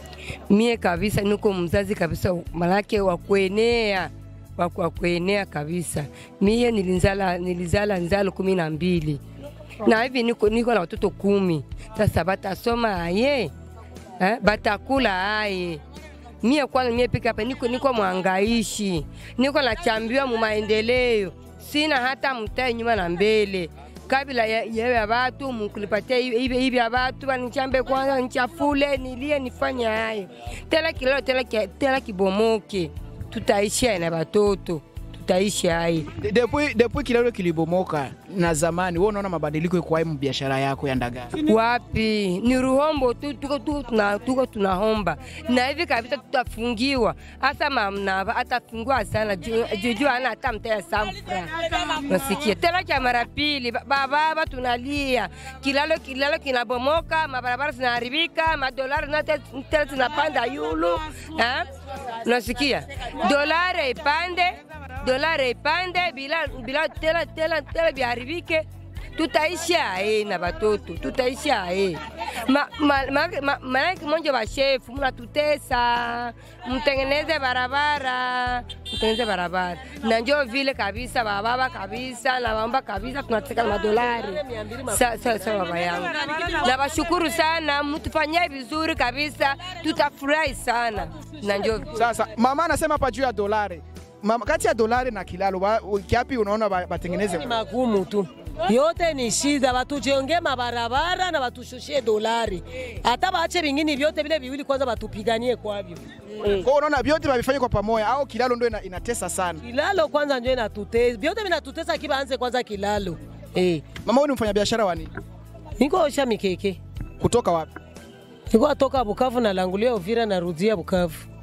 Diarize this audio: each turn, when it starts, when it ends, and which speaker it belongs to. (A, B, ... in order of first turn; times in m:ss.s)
0:00.5-0:09.2 A
0:09.8-0:13.5 A
0:14.2-0:15.8 A
0:16.4-0:36.1 A
0:36.2-0:41.3 B
0:41.4-1:01.7 A
1:02.2-1:08.6 A
1:09.2-1:32.0 A
1:23.7-1:26.8 C
1:31.9-1:37.6 B
1:37.3-1:46.6 C
1:46.5-1:49.6 B
1:49.6-1:53.8 C
1:54.0-1:55.1 B
1:55.8-1:56.8 C
1:57.2-1:57.7 B
1:58.5-2:01.2 C